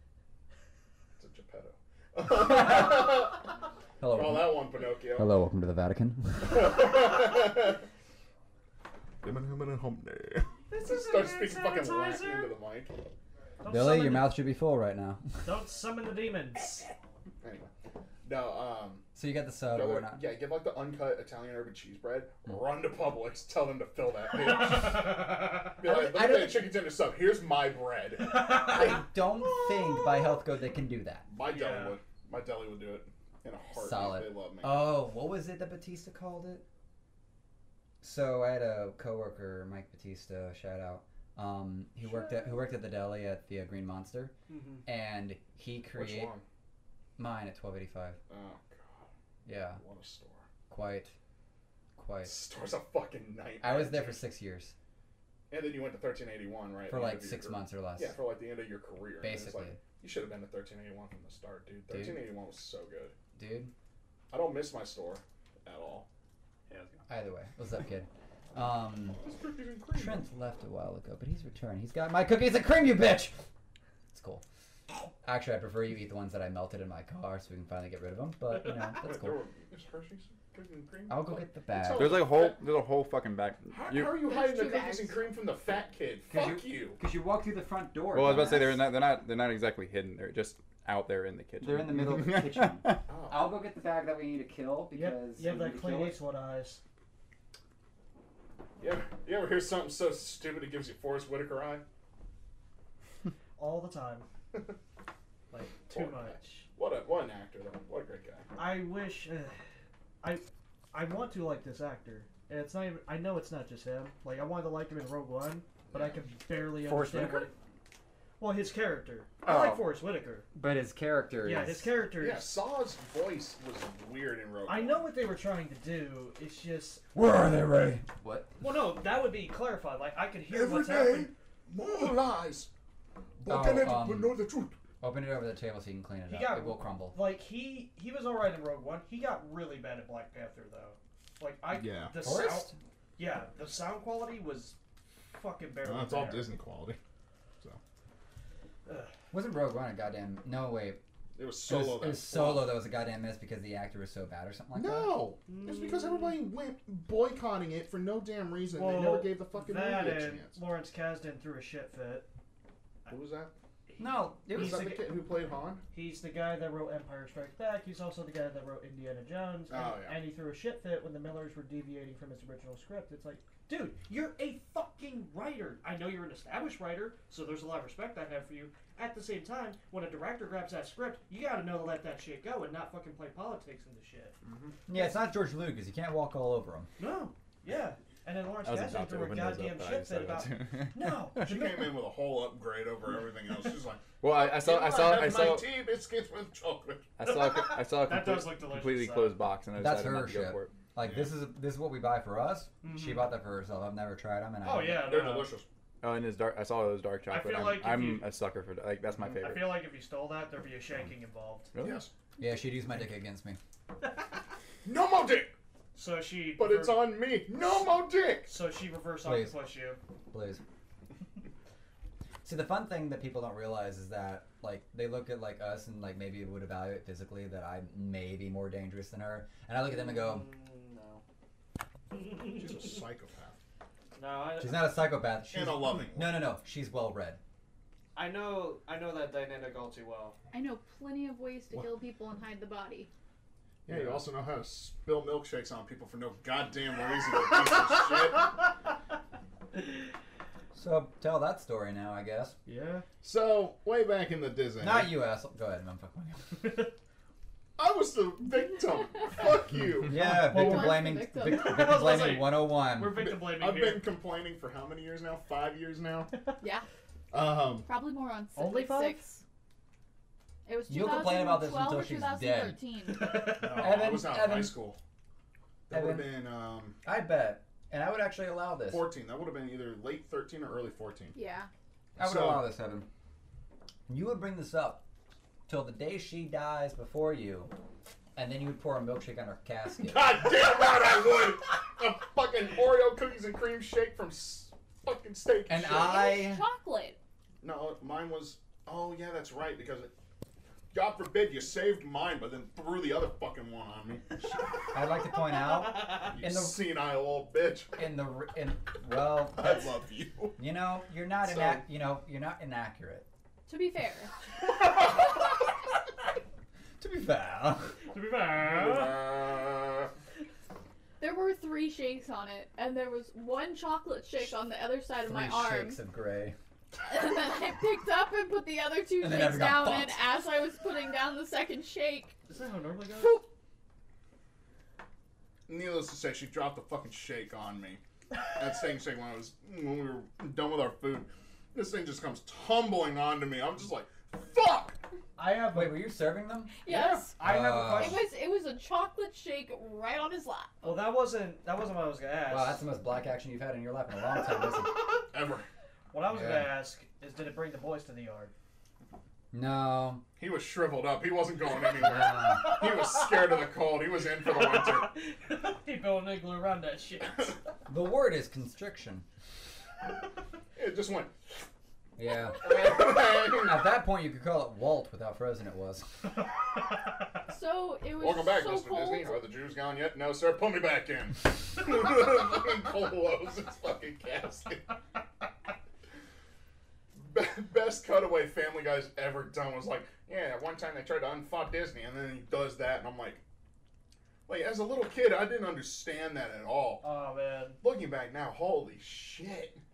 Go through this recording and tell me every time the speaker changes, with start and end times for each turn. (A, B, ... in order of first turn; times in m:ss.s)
0:01.2-0:03.6 A
0:02.5-0:02.7 B
0:04.0-0:04.6 B
0:04.1-0:05.3 A
0:05.2-0:06.9 B
0:06.5-0:07.8 A
0:09.2-0:13.0 A
0:10.7-0:12.6 C
0:13.6-0:14.4 C
0:13.6-0:15.5 B
0:15.4-0:16.9 C
0:17.4-0:17.7 A
0:18.2-0:19.0 A
0:19.1-0:20.2 B
0:19.7-0:28.8 A
0:25.8-0:26.7 B
0:28.4-0:28.9 C
0:28.6-0:31.2 B
0:31.3-0:34.9 A
0:31.4-0:32.0 C
0:33.8-0:36.6 B
0:38.0-0:44.3 B
0:44.5-0:44.8 C
0:44.8-0:46.3 B
0:45.9-0:46.4 A
0:47.2-0:48.2 B
0:48.3-0:49.1 A
0:49.4-0:49.8 B
0:49.8-0:50.5 A
0:50.7-0:51.1 B
0:52.0-0:52.4 B
0:52.2-0:54.2 A
0:53.6-0:54.7 B
0:55.5-1:03.1 A
0:56.9-0:58.2 B
0:59.2-0:59.8 B
1:01.9-1:02.3 B
1:03.3-1:03.7 B
1:04.3-1:06.1 A
1:07.1-1:09.2 B
1:09.1-1:10.3 A
1:09.9-1:13.4 B
1:14.1-1:14.4 B
1:15.2-1:19.4 B
1:18.9-1:22.6 A
1:21.1-1:22.3 B
1:21.9-1:24.2 D
1:23.7-1:27.0 A
1:24.2-1:25.2 E
1:26.3-1:28.8 B
1:28.1-1:33.0 D
1:31.6-1:36.2 B
1:33.1-1:33.5 A
1:34.9-1:36.8 C
1:38.8-1:41.8 A
1:43.6-1:44.3 C
1:45.5-1:46.7 C
1:45.9-1:48.5 A
1:48.6-1:49.6 C
1:50.2-1:57.5 C
1:55.9-1:56.2 A
1:56.8-1:57.5 B
1:58.4-2:00.5 C
1:59.4-1:59.9 B
2:00.5-2:01.9 B
2:01.4-2:02.6 C
2:02.2-2:05.1 A
2:04.6-2:07.0 C
2:07.1-2:08.6 B
2:08.6-2:11.3 C
2:10.5-2:12.7 A
2:13.4-2:14.8 A
2:13.5-2:14.4 B
2:15.0-2:17.2 B
2:16.3-2:26.5 C
2:21.7-2:22.1 A
2:22.1-2:22.8 B
2:25.8-2:27.0 A
2:28.8-2:29.1 C
2:29.3-2:31.0 B
2:31.4-2:32.8 A
2:31.6-2:35.2 B
2:34.7-2:40.6 A
2:35.5-2:36.4 C
2:38.7-2:42.3 C
2:43.1-2:43.5 A
2:43.9-2:45.1 C
2:44.0-2:44.9 B
2:44.5-2:45.8 A
2:45.9-3:04.4 C
2:49.7-2:50.2 A
3:04.9-3:05.2 C
3:04.9-3:06.9 B
3:07.0-3:11.8 C
3:08.6-3:11.5 D
3:11.4-3:17.1 A
3:14.2-3:15.7 D
3:17.2-3:20.7 D
3:17.2-3:19.4 C
3:19.7-3:25.1 B
3:21.0-3:21.3 A
3:22.8-3:23.3 C
3:24.6-3:25.5 C
3:25.0-3:25.7 A
3:26.0-3:29.8 D
3:27.3-3:28.3 C
3:29.3-3:31.7 C
3:31.7-3:32.1 D
3:31.8-3:32.1 A
3:32.4-3:33.6 B
3:34.8-3:35.5 A
3:35.9-3:37.1 C
3:36.6-3:38.6 A
3:38.5-3:40.0 C
3:39.2-3:39.6 B
3:40.3-3:40.6 B
3:42.4-3:50.5 B
3:49.9-3:51.2 C
3:52.1-3:53.0 C
3:52.5-3:53.6 A
3:54.1-3:55.0 C
3:54.6-3:57.4 B
3:55.5-3:56.4 A
3:58.1-4:00.4 C
4:00.5-4:03.1 E
4:03.8-4:08.5 A
4:10.7-4:12.6 B
4:12.6-4:13.0 C
4:13.2-4:15.2 A
4:14.8-4:16.8 B
4:17.8-4:20.3 A
4:20.0-4:23.2 B
4:20.3-4:21.9 E
4:20.4-4:24.1 C
4:23.1-4:26.3 A
4:26.6-4:26.8 E
4:27.3-4:27.9 A
4:27.8-4:29.4 E
4:28.6-4:29.4 C
4:30.6-4:33.5 E
4:30.9-4:32.8 B
4:33.1-4:33.9 C
4:33.4-4:35.0 A
4:33.5-4:34.8 B
4:35.9-4:37.0 A
4:35.9-4:36.4 B
4:37.0-4:39.1 B
4:38.9-4:41.4 A
4:41.3-4:41.7 E
4:42.2-4:42.7 A
4:42.2-4:43.1 B
4:44.1-4:45.0 B
4:45.7-4:47.7 B
4:48.4-4:50.4 B
4:50.0-4:56.3 A
4:55.7-4:56.6 B
4:55.9-4:57.2 E
4:57.6-5:00.1 A
5:00.9-5:04.5 A
5:04.9-5:06.8 B
5:06.1-5:08.0 A
5:08.0-5:09.9 B
5:09.5-5:10.6 A
5:10.6-5:13.2 B
5:11.4-5:11.8 A
5:13.7-5:14.3 E
5:14.8-5:15.1 A
5:17.0-5:18.0 B
5:18.1-5:19.3 C
5:18.5-5:20.1 A
5:21.2-5:26.0 E
5:25.2-5:26.6 B
5:27.0-5:32.4 E
5:29.2-5:30.2 B
5:32.5-5:33.4 C
5:35.7-5:45.0 A
5:45.4-5:46.0 C
5:45.7-5:46.8 B
5:46.8-5:50.9 E
5:46.9-5:48.3 C
5:47.4-5:48.2 B
5:50.8-5:52.8 C
5:52.5-5:55.1 B
5:55.3-5:55.7 A
5:56.1-5:58.5 C
5:56.3-5:56.7 B
5:59.5-6:00.2 B
6:00.4-6:05.2 A
6:02.0-6:02.7 B
6:04.6-6:07.6 C
6:07.8-6:09.2 B
6:10.7-6:11.3 A
6:12.2-6:16.3 B
6:12.6-6:13.9 A
6:17.5-6:19.4 E
6:18.2-6:24.9 A
6:27.2-6:33.4 A
6:34.5-6:37.0 A
6:37.0-6:37.8 C
6:37.8-6:39.8 A